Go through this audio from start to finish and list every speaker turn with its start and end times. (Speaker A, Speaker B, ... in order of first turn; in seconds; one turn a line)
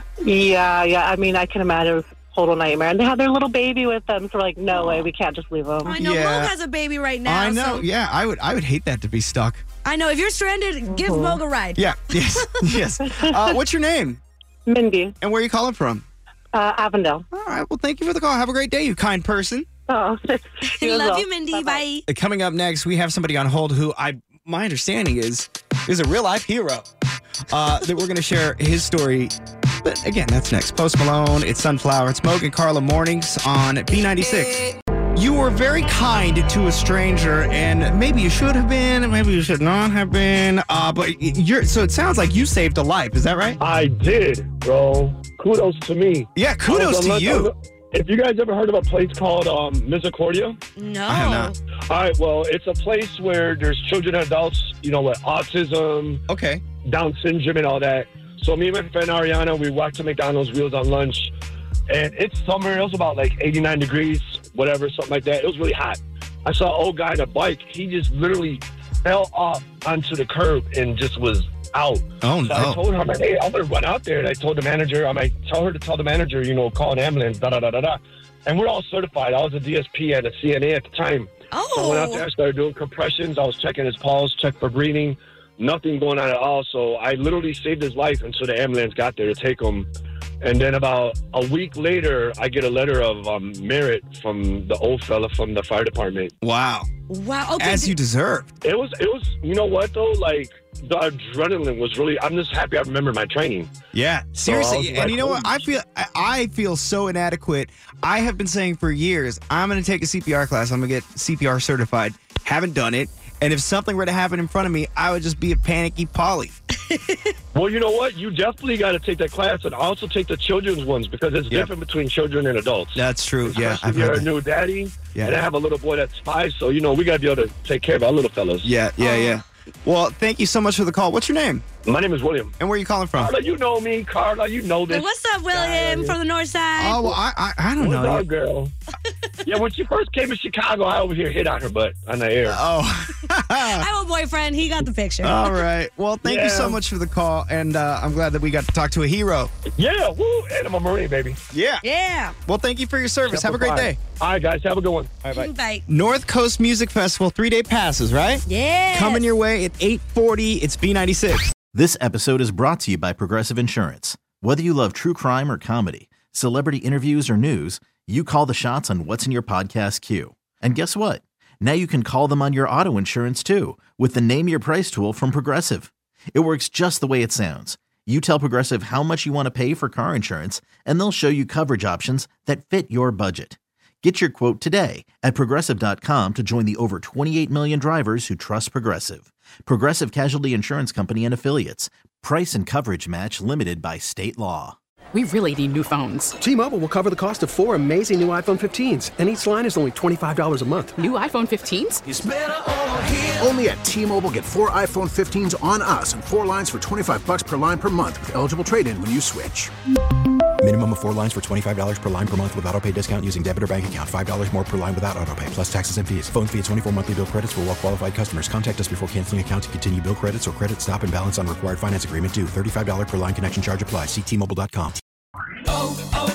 Speaker A: 0.2-6.0
Speaker B: 4.7-5.1
Speaker C: 5.8-7.8
Speaker B: 5.9-6.5
Speaker B: 7.2-9.6
Speaker C: 9.8-12.5
Speaker A: 10.8-11.4
Speaker B: 11.8-14.2
Speaker A: 13.0-13.5
Speaker A: 14.7-15.2
Speaker B: 15.2-16.0
Speaker A: 16.5-17.2
Speaker B: 17.3-19.7
Speaker A: 19.9-21.9
Speaker C: 20.6-22.1
Speaker B: 22.1-26.8
Speaker B: 27.5-34.6
Speaker B: 35.1-43.6
Speaker D: 43.6-50.6
Speaker B: 46.3-47.5
Speaker C: 50.8-51.5
Speaker B: 51.1-51.5
Speaker D: 51.9-56.2
Speaker B: 56.3-56.6
Speaker D: 56.8-61.3
Speaker D: 61.9-89.9
Speaker B: 72.2-72.8
Speaker C: 81.5-82.2
Speaker D: 90.4-96.3
Speaker B: 96.4-96.9
Speaker C: 97.1-97.9
Speaker B: 97.6-98.5
Speaker D: 98.6-103.7
Speaker B: 103.9-116.5
Speaker D: 104.3-105.5
Speaker C: 116.9-117.3
Speaker D: 117.5-128.7
Speaker B: 122.9-124.3
Speaker B: 125.1-125.4
Speaker B: 128.6-131.6
Speaker C: 129.0-129.4
Speaker D: 131.8-132.5
Speaker B: 132.6-133.3
Speaker D: 133.1-136.2
Speaker C: 134.9-137.1
Speaker B: 136.8-138.2
Speaker D: 137.8-138.7
Speaker D: 139.4-142.6
Speaker B: 142.5-143.8
Speaker C: 143.6-145.5
Speaker B: 145.2-149.5
Speaker D: 146.2-146.8
Speaker D: 149.8-151.4
Speaker B: 151.5-151.8
Speaker C: 151.8-152.3
Speaker B: 152.4-154.0
Speaker D: 153.3-155.1
Speaker B: 155.2-161.4
Speaker C: 155.3-155.8
Speaker C: 158.4-159.3
Speaker E: 161.7-194.8
Speaker F: 195.2-196.4
Speaker G: 196.4-201.0
Speaker F: 200.9-202.0
Speaker H: 203.4-209.7
Speaker I: 210.6-225.0